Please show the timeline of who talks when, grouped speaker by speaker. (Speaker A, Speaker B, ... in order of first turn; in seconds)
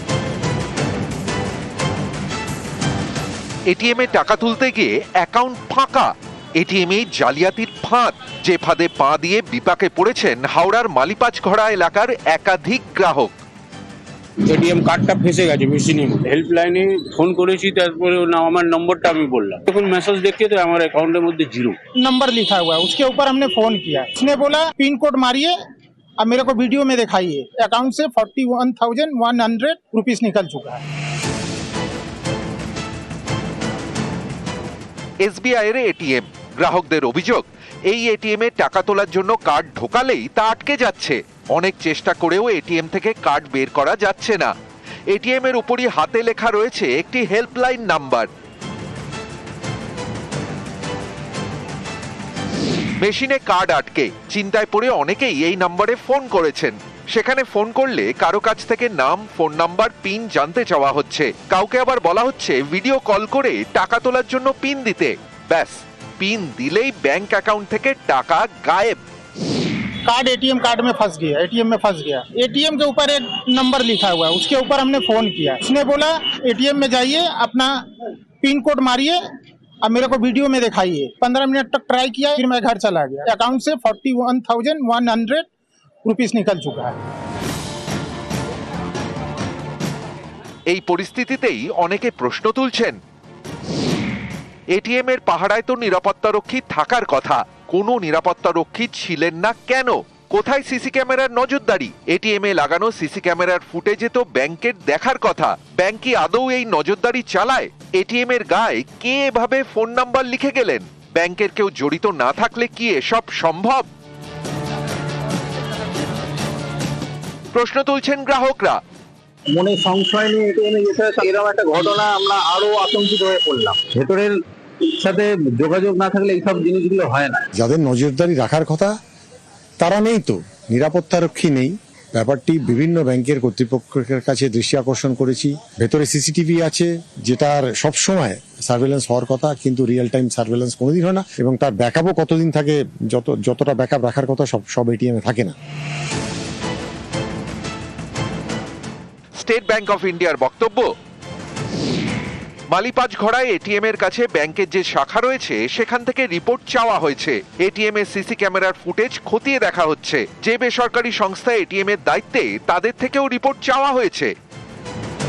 Speaker A: 3.7-13.4, 35.2-44.5, 45.1-48.3, 53.0-69.0, 90.7-93.0, 94.7-113.9, 117.5-118.8, 149.4-150.9, 152.7-164.3
Speaker B: 14.4-21.8
Speaker C: 22.0-25.6, 26.2-30.8, 70.0-79.2, 79.8-85.5, 86.0-87.0
Speaker D: 119.5-127.4
Speaker E: 127.6-128.9, 129.8-145.5